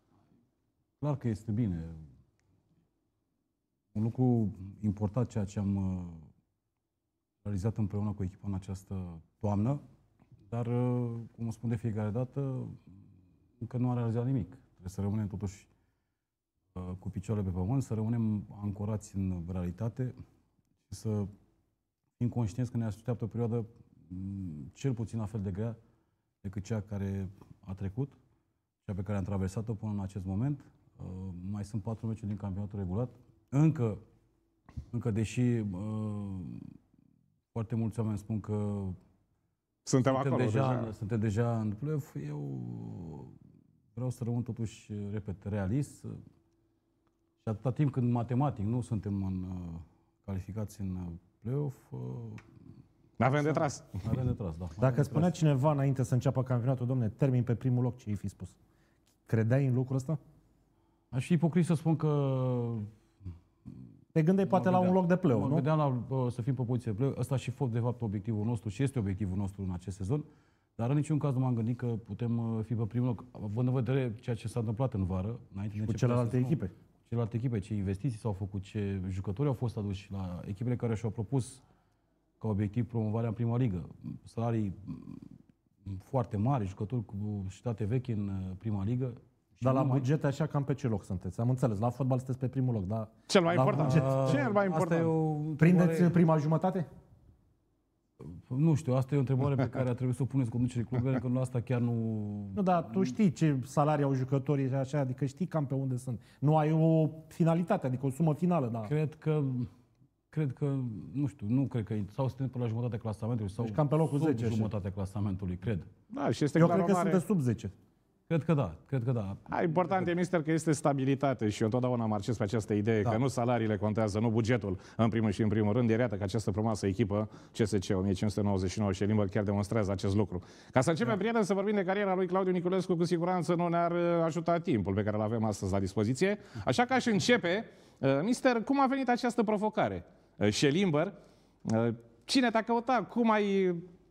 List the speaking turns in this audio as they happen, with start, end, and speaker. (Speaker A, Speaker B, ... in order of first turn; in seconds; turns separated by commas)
Speaker A: 1.0-2.0, Speaker A: 3.9-6.3, Speaker A: 7.4-9.8, Speaker A: 10.5-12.8, Speaker A: 13.6-15.7, Speaker A: 16.8-20.2, Speaker A: 20.9-21.3, Speaker A: 22.2-25.8, Speaker A: 26.4-28.2, Speaker A: 28.9-34.0, Speaker A: 34.9-36.7, Speaker A: 37.5-39.0, Speaker B: 39.9-40.9, Speaker A: 40.1-43.4, Speaker A: 44.0-46.1, Speaker A: 47.4-52.5, Speaker B: 53.2-54.0, Speaker A: 53.3-55.3, Speaker C: 54.8-58.6, Speaker C: 59.3-60.2, Speaker A: 61.1-62.9, Speaker C: 64.2-65.7, Speaker A: 64.5-70.3, Speaker A: 70.8-81.6, Speaker C: 75.8-76.7, Speaker A: 82.4-85.3, Speaker A: 85.8-90.1, Speaker C: 89.6-94.4, Speaker B: 93.3-95.1, Speaker A: 93.7-96.2, Speaker C: 95.6-96.9, Speaker A: 98.2-103.2, Speaker C: 102.5-108.9, Speaker A: 108.9-109.7, Speaker A: 110.3-115.9, Speaker C: 113.6-114.7, Speaker B: 116.1-117.2, Speaker C: 116.6-117.7, Speaker A: 118.3-120.1, Speaker B: 119.5-143.9